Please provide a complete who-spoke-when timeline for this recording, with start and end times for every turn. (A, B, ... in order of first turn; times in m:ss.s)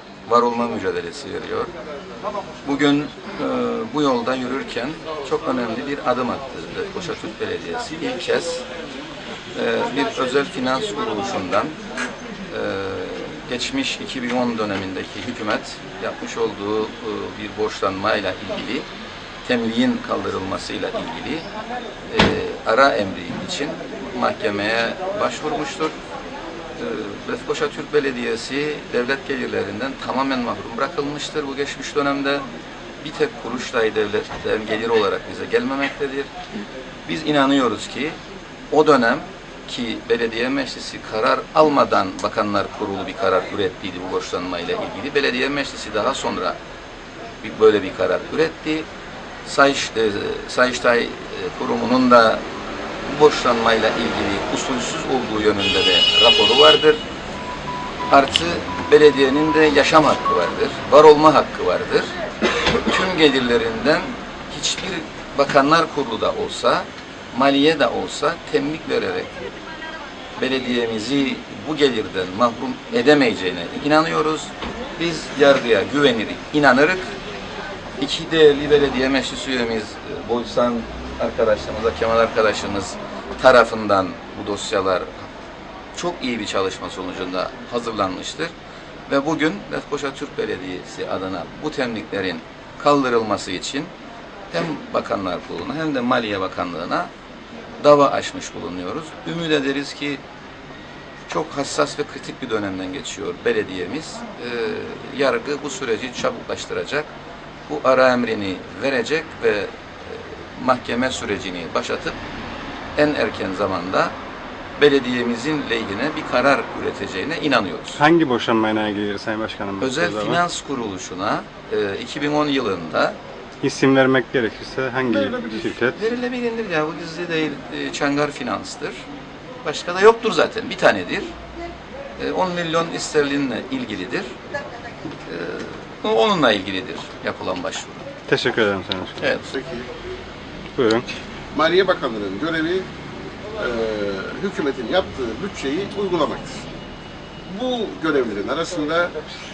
0:00.2-0:01.7 A
0:02.6-0:08.6 A
0:09.5-0:11.8 A
0:12.5-0:18.9 A
0:19.4-0:21.5 A
0:22.1-0:26.0 A
0:26.8-0:32.4 A
0:33.0-0:36.3 A
0:37.0-0:38.2 A
0:38.7-0:46.6 A
0:47.4-0:48.9 A
0:49.4-0:52.4 A
0:53.0-0:57.0 A
0:58.1-1:09.3 A
1:10.4-1:17.2 A
1:18.0-1:25.3 A
1:25.9-1:28.5 A
1:29.1-1:33.9 A
1:34.5-1:37.1 A
1:37.8-1:40.2 A
1:41.3-1:47.1 A
1:47.7-1:52.2 A
1:52.9-1:54.1 A
1:54.8-1:58.0 A
1:58.0-2:00.4 B
1:59.8-2:03.2 A
2:03.6-2:06.0 B
2:05.0-2:09.0 A
2:09.6-2:11.3 A
2:12.2-2:14.4 A
2:15.2-2:18.0 A
2:18.3-2:19.2 B
2:19.2-2:19.5 A
2:19.5-2:19.9 C
2:20.8-2:21.1 B
2:21.5-2:22.9 C
2:23.6-2:26.6 C
2:27.5-2:29.1 C